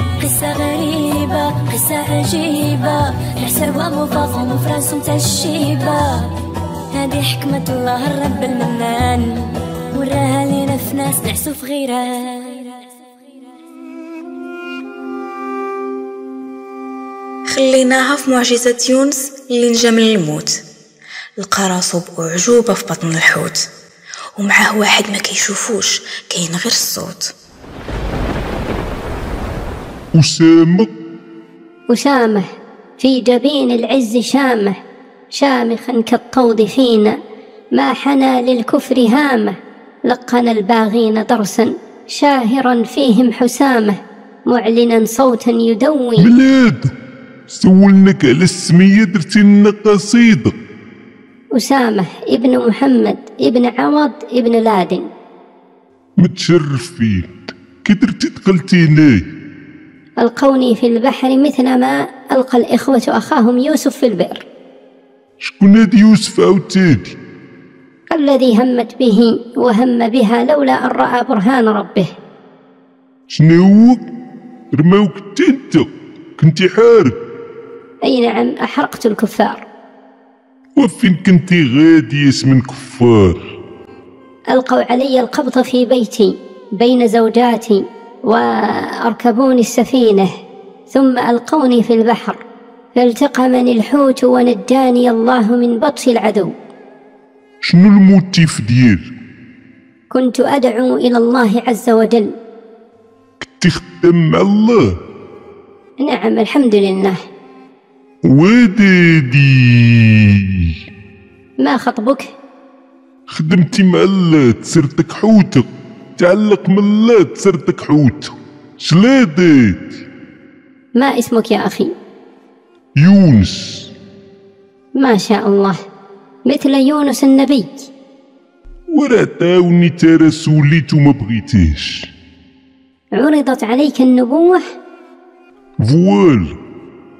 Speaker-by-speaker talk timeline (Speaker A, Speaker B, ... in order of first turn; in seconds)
Speaker A: 0.2-6.3, 6.9-12.7
Speaker B: 17.5-20.6, 21.4-23.6, 24.4-27.3
Speaker C: 30.1-30.9, 46.2-46.9, 47.5-50.5, 56.2-59.2, 65.4-67.2, 73.3-74.0, 74.7-75.8, 76.4-77.2, 80.8-83.4, 97.6-99.1, 103.4-104.8, 108.2-110.7, 113.3-115.7, 116.2-119.9, 123.0-123.9, 128.9-132.1, 135.8-136.6
Speaker D: 31.9-32.4, 33.0-34.7, 35.3-37.1, 37.7-39.5, 40.1-44.0, 44.5-46.3, 51.5-55.0, 60.2-64.5, 68.1-72.1, 78.0-79.6, 84.5-90.3, 90.9-92.4, 92.9-96.5, 100.1-102.3, 106.0-107.2, 111.6-112.3, 120.9-121.9, 125.0-125.8, 126.5-127.9, 133.2-134.6